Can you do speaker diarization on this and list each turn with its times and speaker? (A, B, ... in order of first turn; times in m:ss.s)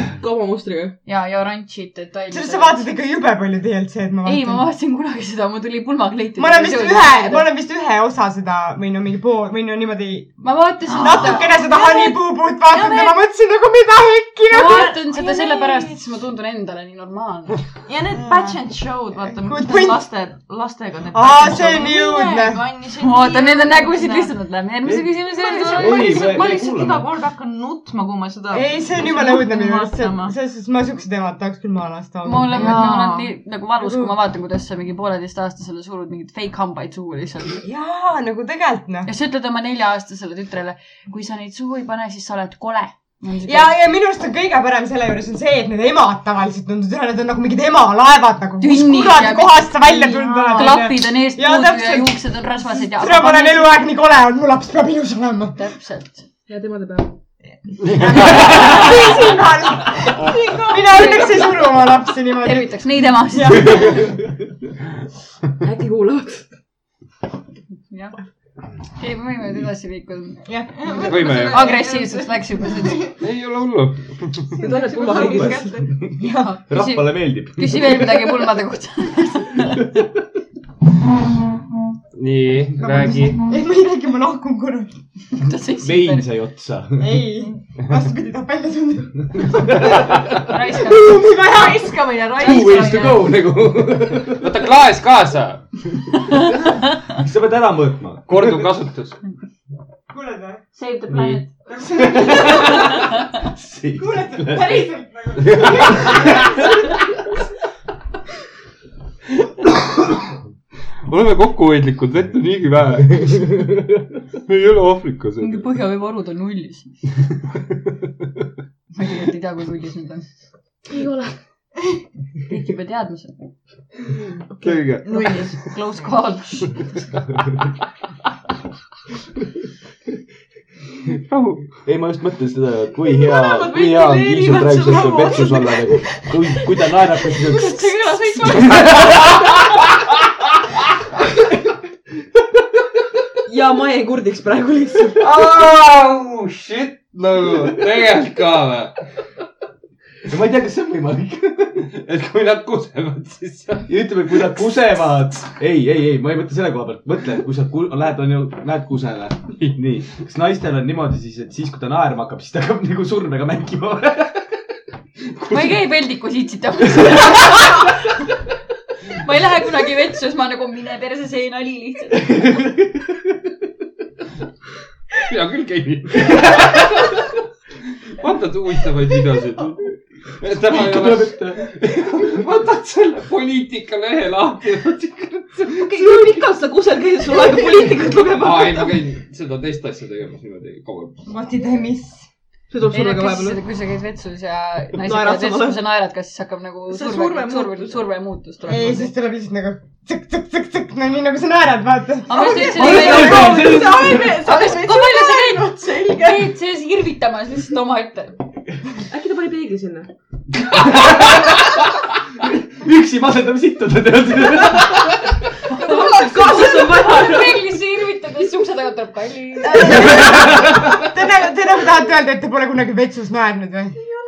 0:00.2-0:01.0 A
0:01.0-0:03.0 B
0:02.3-0:04.7 C
0:04.2-0:07.5 B
0:06.4-0:10.4 C
0:10.4-0:11.6 B
0:10.9-0:13.3 D
0:11.0-0:15.0 C
0:14.5-0:17.6 B
0:14.6-0:16.0 D
0:17.9-0:24.4 D
0:18.2-0:18.6 C
0:19.4-0:20.1 C
0:21.1-0:22.6 C
0:23.0-0:26.5 B
0:25.3-0:30.4 D
0:25.7-0:27.1 E
0:28.5-0:33.0 C
0:32.2-0:37.6 B
0:32.5-0:33.3 D
0:33.8-0:34.1 C
0:37.6-0:39.1 C
0:39.1-0:43.8 B
0:43.5-0:52.2 C
0:48.6-0:53.8 B
0:49.9-0:50.9 D
0:52.8-0:55.6 C
0:55.6-0:56.3 B
0:56.5-0:57.2 A
0:57.8-1:04.2 C
0:58.1-0:58.8 F
1:00.2-1:01.5 D
1:00.9-1:04.1 B
1:05.6-1:06.5 A
1:07.9-1:08.2 B
1:09.0-1:13.1 B
1:10.5-1:11.1 C
1:10.8-1:13.0 D
1:11.0-1:11.7 F
1:13.2-1:14.5 F
1:14.5-1:15.9 D
1:14.6-1:15.8 A
1:15.1-1:18.1 E
1:16.2-1:16.6 C
1:16.2-1:20.0 B
1:22.1-1:23.4 F
1:22.8-1:24.9 C
1:25.4-1:26.3 B
1:25.8-1:27.2 E
1:27.0-1:30.0 C
1:30.4-1:31.3 B
1:30.8-1:32.1 C
1:31.0-1:33.3 D
1:32.4-1:34.6 E
1:32.5-1:32.9 B
1:34.1-1:35.8 F
1:37.1-1:38.7 E
1:38.3-1:39.2 F
1:40.1-1:40.6 C
1:40.8-1:41.5 B
1:41.1-1:41.4 F
1:41.8-1:42.9 C
1:42.5-1:42.8 E
1:43.4-1:46.4 E
1:44.0-1:46.9 C
1:49.6-1:50.2 F
1:51.1-1:53.7 F
1:54.4-1:55.7 F
1:55.4-1:56.9 B
1:58.9-2:00.3 B
2:02.5-2:03.5 B
2:04.6-2:05.4 F
2:05.0-2:05.4 D
2:05.1-2:05.4 A
2:05.1-2:07.0 B
2:11.1-2:11.7 F
2:11.8-2:17.9 E
2:13.1-2:16.7 D
2:17.3-2:19.2 D
2:17.9-2:18.7 B
2:18.5-2:19.8 F
2:23.5-2:25.2 A
2:25.2-2:29.0 F
2:30.2-2:31.8 E
2:31.9-2:33.9 F
2:33.9-2:44.5 E
2:45.5-2:47.9 B
2:49.1-2:52.4 B
2:52.3-2:53.0 E
2:55.2-2:57.3 F
2:56.3-2:56.6 E
2:58.1-3:06.3 F
3:00.5-3:01.8 E
3:05.9-3:09.0 A
3:08.3-3:11.2 F
3:11.3-3:12.3 C
3:12.7-3:13.6 A
3:12.9-3:19.1 B
3:15.0-3:15.8 A
3:16.9-3:17.9 A
3:18.7-3:23.1 C
3:22.3-3:28.4 B
3:22.4-3:24.1 A
3:22.8-3:24.4 E
3:23.0-3:26.5 D
3:29.1-3:30.1 A
3:30.7-3:31.5 E
3:30.8-3:31.2 F
3:32.4-3:35.4 E
3:35.7-3:40.2 B
3:35.8-3:37.7 A
3:39.6-3:44.0 C